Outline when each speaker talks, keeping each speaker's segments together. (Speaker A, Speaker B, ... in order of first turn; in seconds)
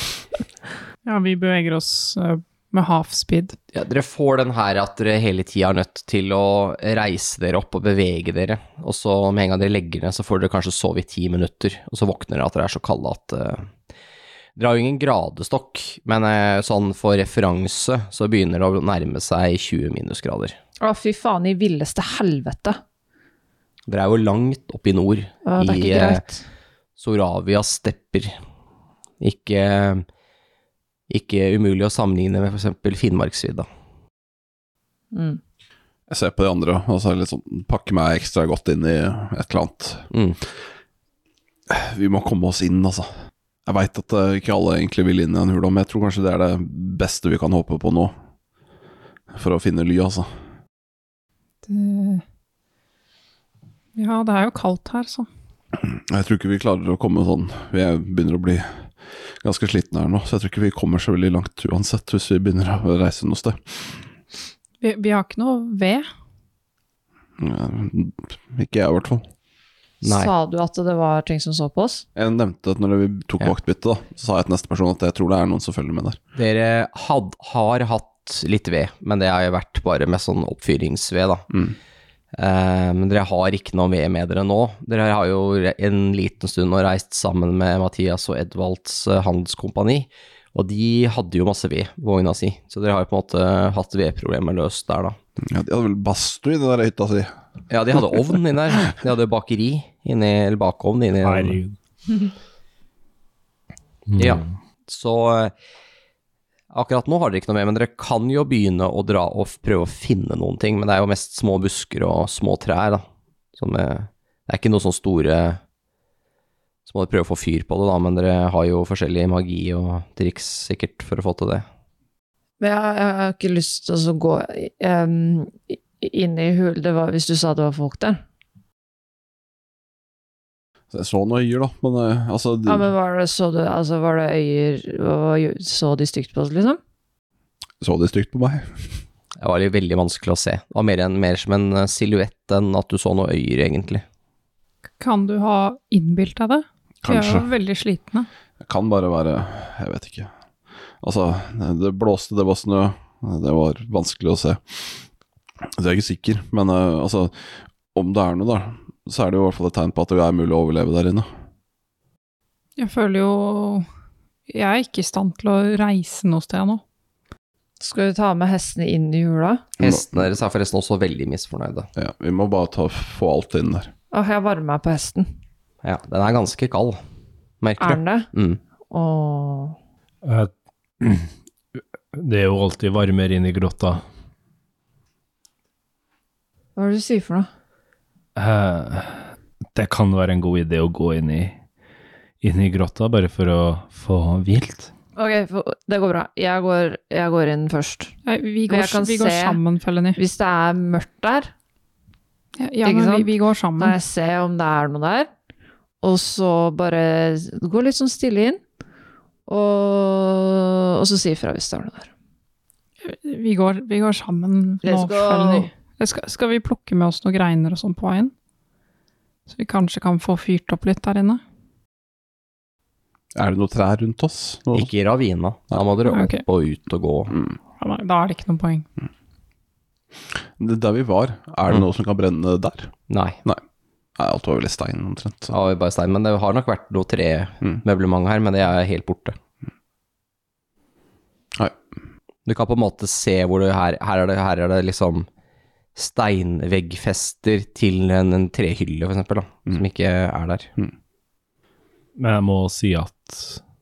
Speaker A: 1.1-3.5, 51.6-52.2, 54.0-55.3, 64.8-66.1, 145.0-148.3, 162.8-163.8, 164.5-166.8, 198.2-200.2, 202.6-203.9, 213.0-218.3, 219.5-221.4, 226.1-226.4, 227.8-228.9
Speaker B: 3.7-13.7, 14.6-20.6, 23.9-26.2, 27.0-28.4, 29.2-30.0, 31.1-33.7, 40.1-40.4, 70.0-70.3, 76.3-81.5, 82.3-95.2, 97.7-101.6, 104.2-105.5, 106.7-113.0, 113.5-115.6, 116.9-121.7, 139.4-144.0, 169.8-171.9, 175.8-177.0, 177.6-178.6, 224.7-227.4, 233.1-233.4, 235.5-239.4, 242.4-245.3, 245.9-250.7
Speaker C: 20.8-22.8, 25.4-26.4, 35.1-35.4, 70.0-72.0, 122.6-128.2, 132.7-136.8, 167.8-169.6, 174.1-175.3, 177.8-178.3, 178.9-179.8, 186.8-187.5, 195.2-198.1, 198.7-199.6, 200.2-201.5, 202.8-205.3, 206.0-208.6, 209.5-212.1, 214.8-215.7
Speaker D: 36.1-40.0, 41.7-43.1, 43.6-48.1, 49.3-50.3, 55.8-58.8, 59.4-64.0, 67.4-69.2, 72.2-76.2, 95.4-97.3, 130.9-132.9, 137.8-138.7, 147.0-147.5, 148.6-150.3, 151.0-155.0, 155.8-157.3, 157.9-161.3, 169.8-170.3, 171.9-173.9, 223.3-224.9, 230.6-232.9, 234.2-235.5
Speaker E: 101.2-101.8, 104.1-104.4, 180.2-181.3, 182.1-184.0, 188.3-191.6, 192.4-194.9, 252.2-253.6